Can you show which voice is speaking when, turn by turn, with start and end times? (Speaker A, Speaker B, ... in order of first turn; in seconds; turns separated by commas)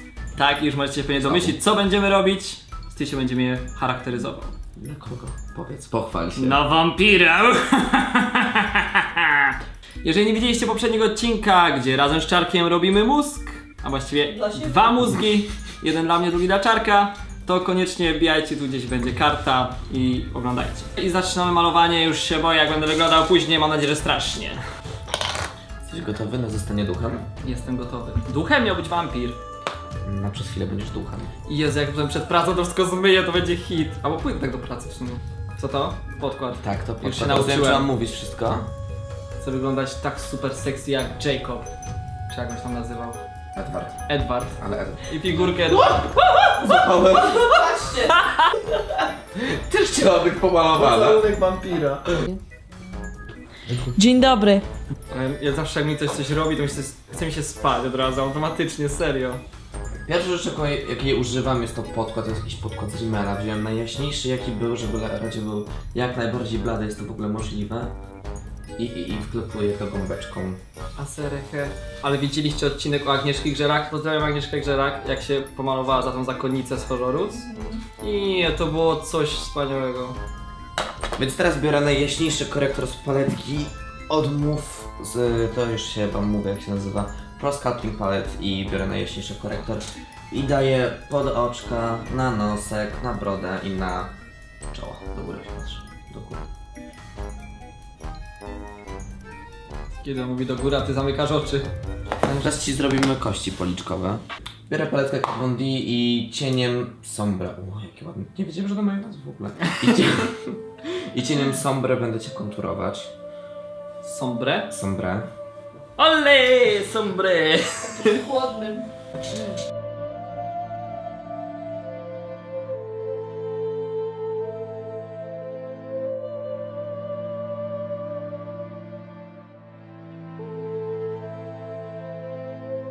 Speaker A: 0.3-4.5, Speaker B: 1.2-1.6, Speaker B: 4.8-6.6, Speaker A: 6.4-24.6, Speaker C: 14.3-14.9, Speaker B: 25.8-27.3, Speaker A: 27.4-29.4, Speaker B: 30.0-31.3, Speaker A: 31.5-37.9, Speaker B: 36.6-38.7, Speaker A: 39.4-41.7, Speaker A: 42.3-43.2, Speaker B: 43.5-44.0, Speaker A: 44.1-46.1, Speaker B: 44.6-45.0, Speaker B: 45.5-48.1, Speaker A: 48.0-48.5, Speaker B: 49.2-51.3, Speaker A: 50.8-52.1, Speaker C: 53.9-54.6, Speaker A: 55.1-59.4, Speaker B: 60.1-67.9, Speaker B: 68.8-70.6, Speaker A: 71.0-77.4, Speaker C: 77.3-77.8, Speaker A: 78.0-80.2, Speaker B: 81.2-94.1, Speaker B: 94.7-96.5, Speaker A: 100.0-101.7, Speaker A: 102.2-102.6, Speaker B: 102.3-113.1, Speaker A: 109.6-110.0, Speaker A: 114.0-114.7, Speaker B: 114.7-115.3, Speaker A: 116.0-118.2, Speaker C: 117.8-118.9